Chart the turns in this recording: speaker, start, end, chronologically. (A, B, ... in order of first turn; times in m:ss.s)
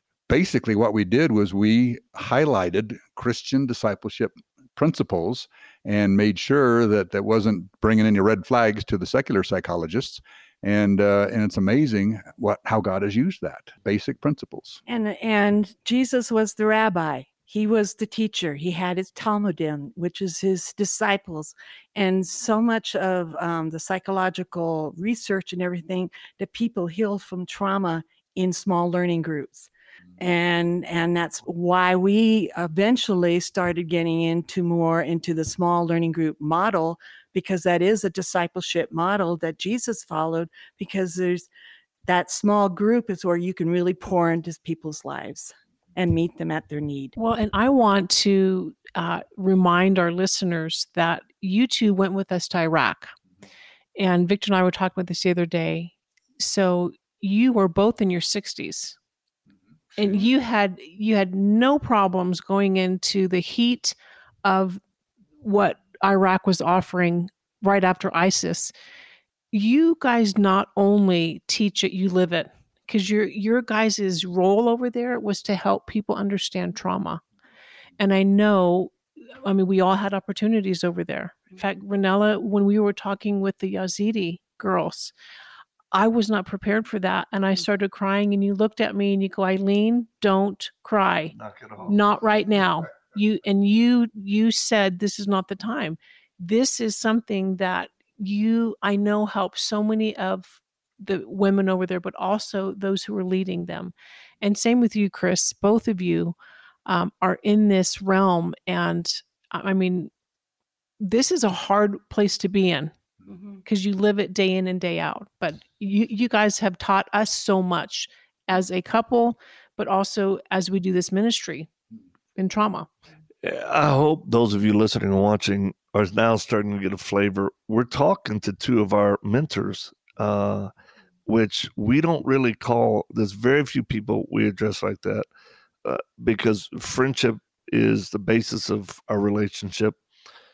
0:00.3-0:14.8 A
0:14.9-0:41.5 B
0:42.1-0:47.1 B
0:47.2-0:53.1 C
0:54.0-0:59.0 C
1:00.0-1:04.8 C
1:05.4-1:08.7 C
1:09.5-1:17.2 C
1:18.0-1:25.1 C
1:25.9-1:31.3 C
1:31.3-1:32.0 D
1:31.9-1:46.4 C
1:46.9-1:50.1 C
1:51.0-1:52.9 C
1:53.6-2:01.7 C
2:02.4-2:02.9 C
2:03.4-2:10.7 D
2:11.3-2:15.3 D
2:15.8-2:20.0 D